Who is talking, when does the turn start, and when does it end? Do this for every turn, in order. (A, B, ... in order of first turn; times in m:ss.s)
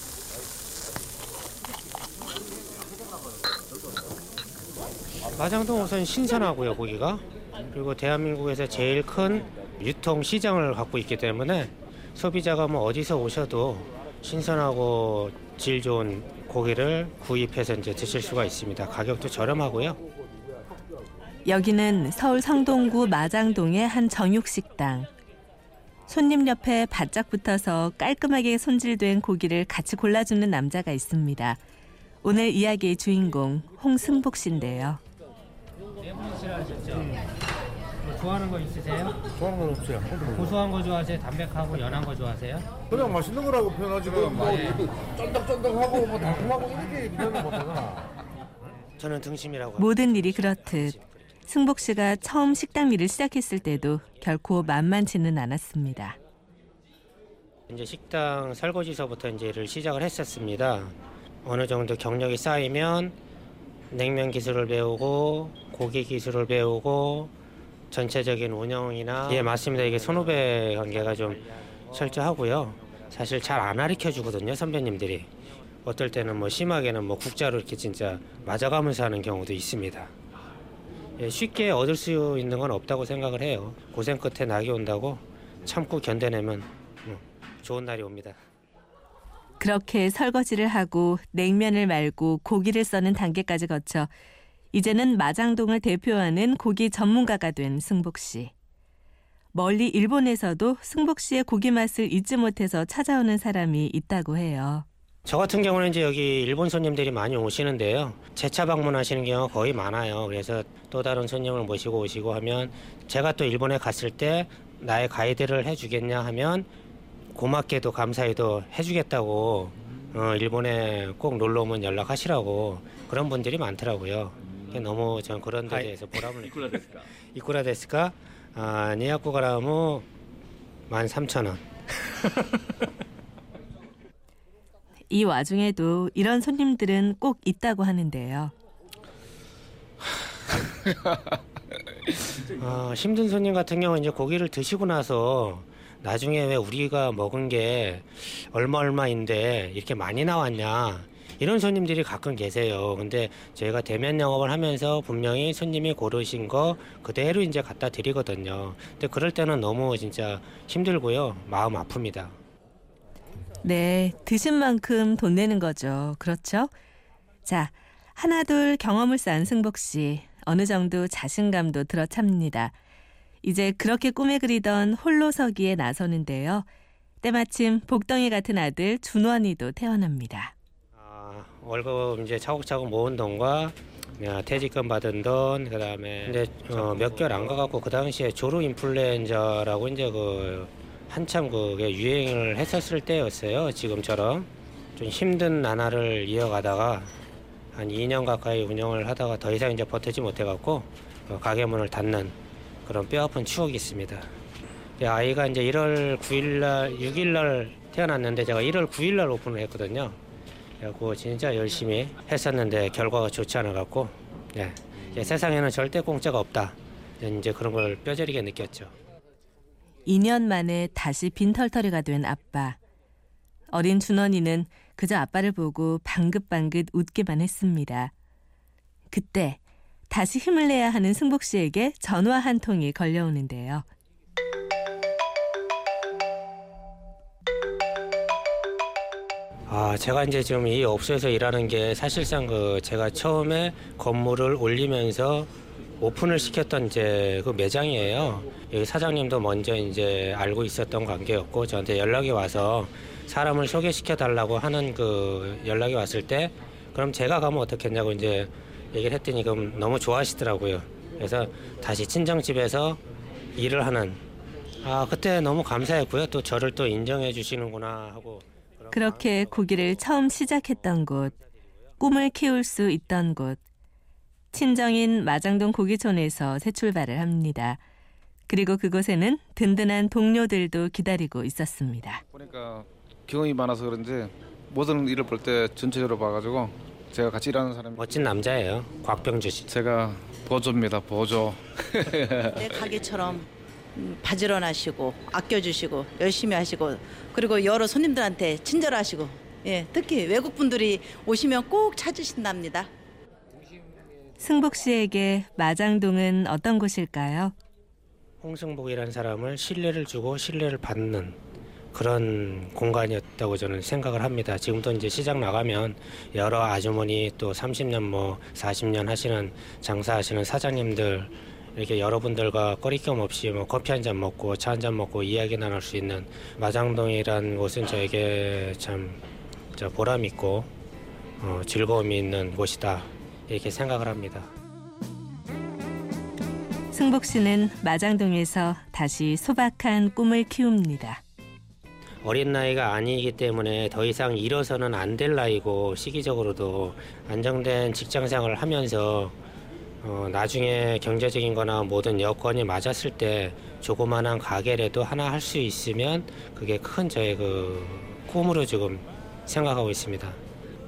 0:05.3-0:20.0 A
0:21.4-0:25.1 B
0:26.1-0:31.6 B
0:32.2-0:35.0 B
0:36.0-0:37.2 A
0:38.0-0:39.2 A
0:39.6-0:40.2 C
0:40.3-0:42.7 A
0:43.0-0:44.6 C
0:44.3-0:44.8 A
0:45.5-0:47.8 C
0:49.0-0:51.0 A
0:49.8-0:51.0 B
0:51.5-0:56.2 B
0:57.7-1:03.2 A
1:03.9-1:07.3 A
1:07.9-1:15.3 A
1:15.8-1:20.1 A
1:21.2-1:28.4 A
1:29.6-1:34.1 B
1:34.7-1:38.5 B
1:39.5-1:44.8 B
1:45.2-1:56.7 A
1:57.3-2:10.1 A
2:10.9-2:11.6 A
2:15.1-2:18.5 B
2:22.5-2:42.4 A
2:43.6-2:46.7 B
2:47.4-2:52.7 B
2:53.4-2:56.7 B
2:57.2-3:00.5 B
3:00.9-3:17.1 A
3:17.7-3:24.3 A
3:25.0-3:30.2 A
3:30.8-3:38.9 A
3:40.0-3:42.8 B
3:43.7-3:48.1 B
3:49.1-3:53.8 B
3:59.7-4:23.0 A
4:23.5-4:24.2 A
4:24.8-4:29.9 A
4:28.9-4:31.4 B
4:32.0-4:33.6 B
4:34.5-4:37.8 B
4:38.5-4:42.2 B
4:42.3-4:48.1 D
4:48.0-4:49.7 A
4:49.7-4:52.8 D
4:52.5-5:02.9 E
5:04.4-5:07.5 B
5:08.4-5:11.4 A
5:11.9-5:29.2 A
5:29.7-5:30.7 A
5:31.4-5:34.5 A
5:36.9-5:41.2 B
5:42.2-5:49.4 A
5:50.0-6:00.4 A